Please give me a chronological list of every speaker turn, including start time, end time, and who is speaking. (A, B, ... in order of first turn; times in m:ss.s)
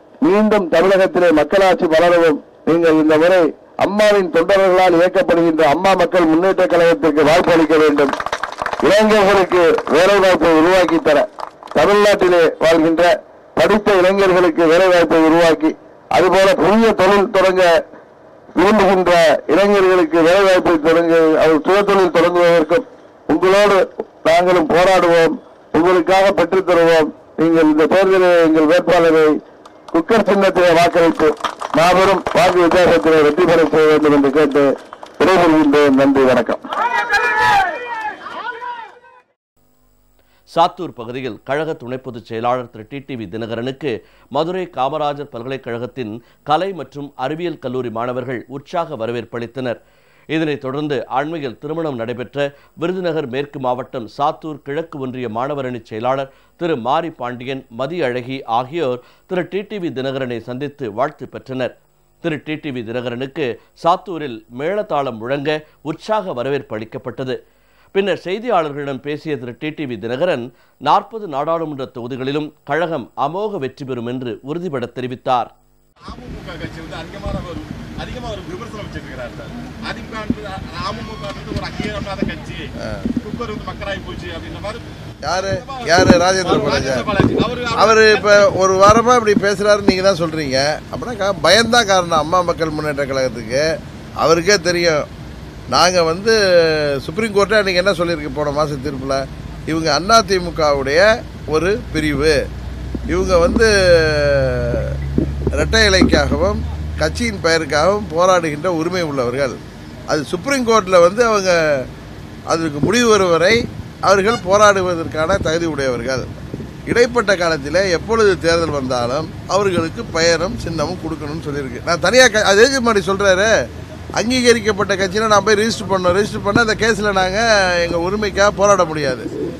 0:00.2-0:08.1 A
0:08.8-0:17.7 A
0:18.6-0:29.4 A
0:29.9-0:36.6 A
0:40.5-0:49.8 B
0:50.3-1:07.4 B
1:07.9-1:15.5 B
1:16.1-1:22.7 C
1:22.8-1:23.0 D
1:23.2-1:24.8 C
1:25.2-1:27.1 D
1:25.4-1:28.5 C
1:27.8-1:33.6 D
1:34.2-1:35.1 D
1:35.7-1:42.4 D
1:43.1-1:45.0 D
1:45.5-1:49.6 D
1:50.1-1:51.9 D
1:52.5-1:56.3 D
1:56.9-2:03.5 D
2:04.2-2:09.3 D